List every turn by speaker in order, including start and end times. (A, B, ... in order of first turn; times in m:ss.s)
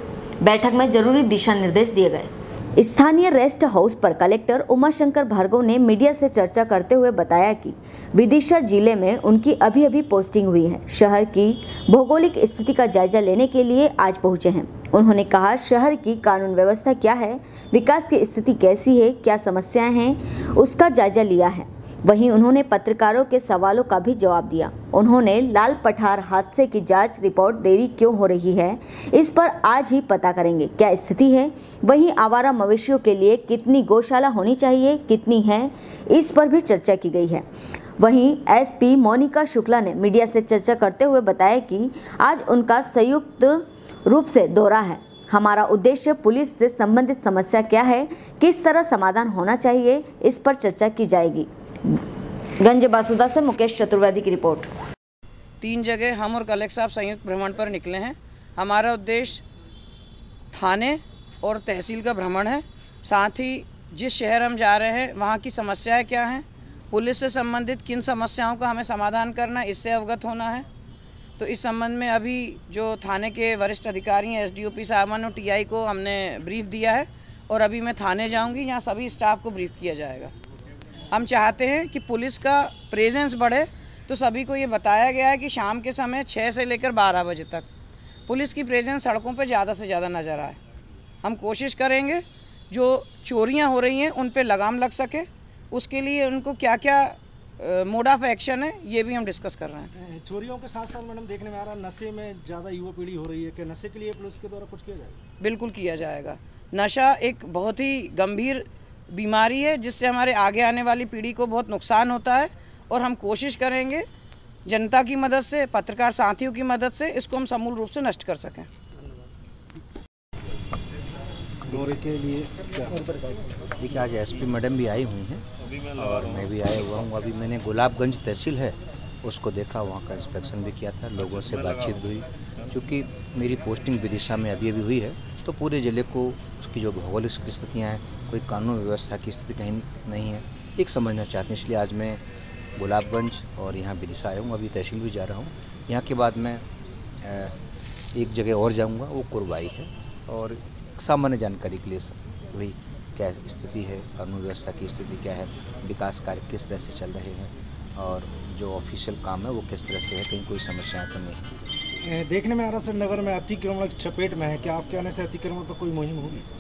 0:00.4-0:37.4 A
0:38.0-0:52.0 A
0:52.6-0:54.7 A
0:55.6-0:59.4 B
1:00.5-1:10.7 B
1:11.4-1:20.3 B
1:21.1-1:27.7 B
1:28.3-1:30.6 B
1:31.2-1:39.9 B
1:40.0-1:45.2 C
1:45.4-1:54.0 B
1:54.7-1:58.7 B
2:01.7-2:03.0 C
2:03.8-2:05.4 D
2:06.0-2:22.2 D
2:22.8-2:26.6 D
2:27.2-2:27.5 D
2:28.1-2:41.4 D
2:42.0-2:46.4 C